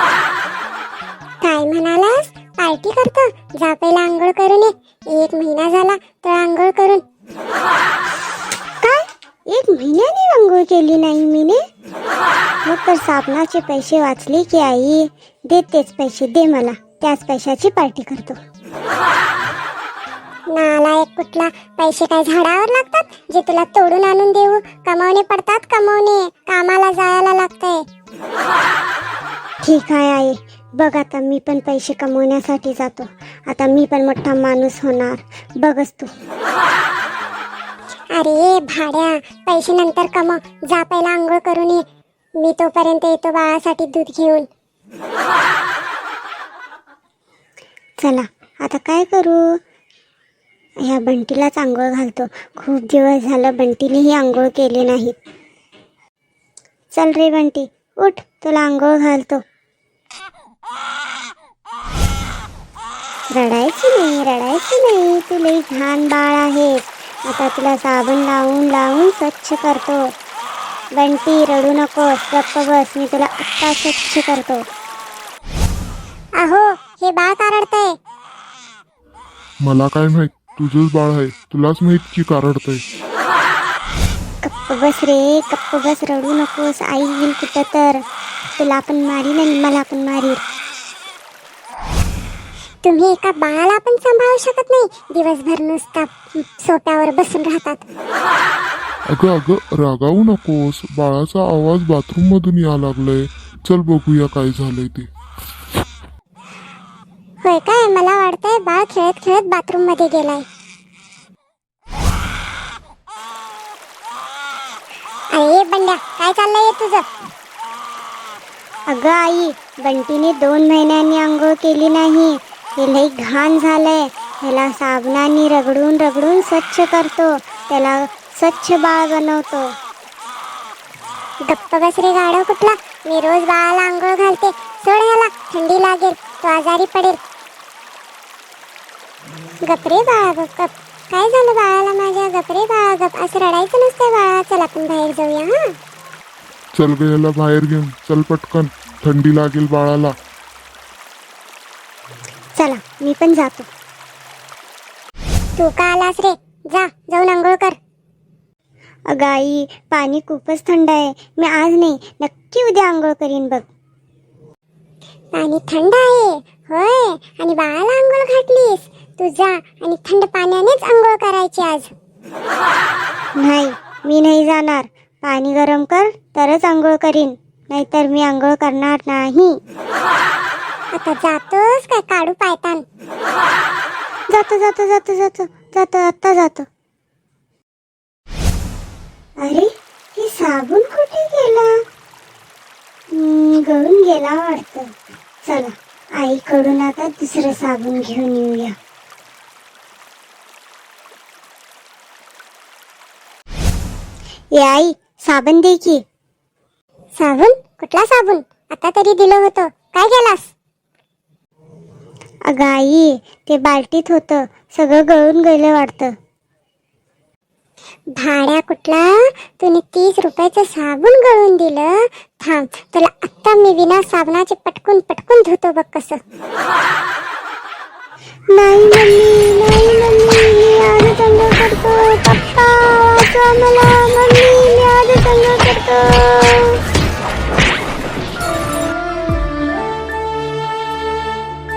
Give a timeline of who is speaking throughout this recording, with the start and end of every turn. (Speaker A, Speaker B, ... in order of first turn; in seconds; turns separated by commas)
Speaker A: 1.4-7.0, Speaker B: 8.8-11.6, Speaker B: 12.7-18.4, Speaker A: 20.5-27.8, Speaker B: 29.6-36.1, Speaker A: 38.1-41.8, Speaker A: 42.4-44.5, Speaker B: 48.0-49.6, Speaker B: 50.8-55.2, Speaker B: 56.9-59.4, Speaker B: 63.3-70.0, Speaker B: 71.0-74.6, Speaker A: 76.4-78.0, Speaker C: 79.6-82.8, Speaker B: 84.4-88.0, Speaker B: 88.6-90.4, Speaker A: 92.8-97.8, Speaker C: 99.1-105.1, Speaker A: 107.4-110.5, Speaker A: 115.3-117.1, Speaker B: 118.9-129.7, Speaker A: 131.5-137.2, Speaker A: 139.6-145.7, Speaker C: 146.8-150.1, Speaker B: 152.6-153.7, Speaker A: 155.6-157.8, Speaker B: 159.1-163.7, Speaker A: 165.3-171.9, Speaker B: 173.4-179.6, Speaker A: 180.9-182.8, Speaker B: 184.3-186.7, Speaker B: 189.4-191.8, Speaker B: 193.1-198.8, Speaker B: 204.5-206.0, Speaker A: 207.2-210.5, Speaker B: 212.5-216.1, Speaker A: 218.2-226.2, Speaker B: 228.5-236.8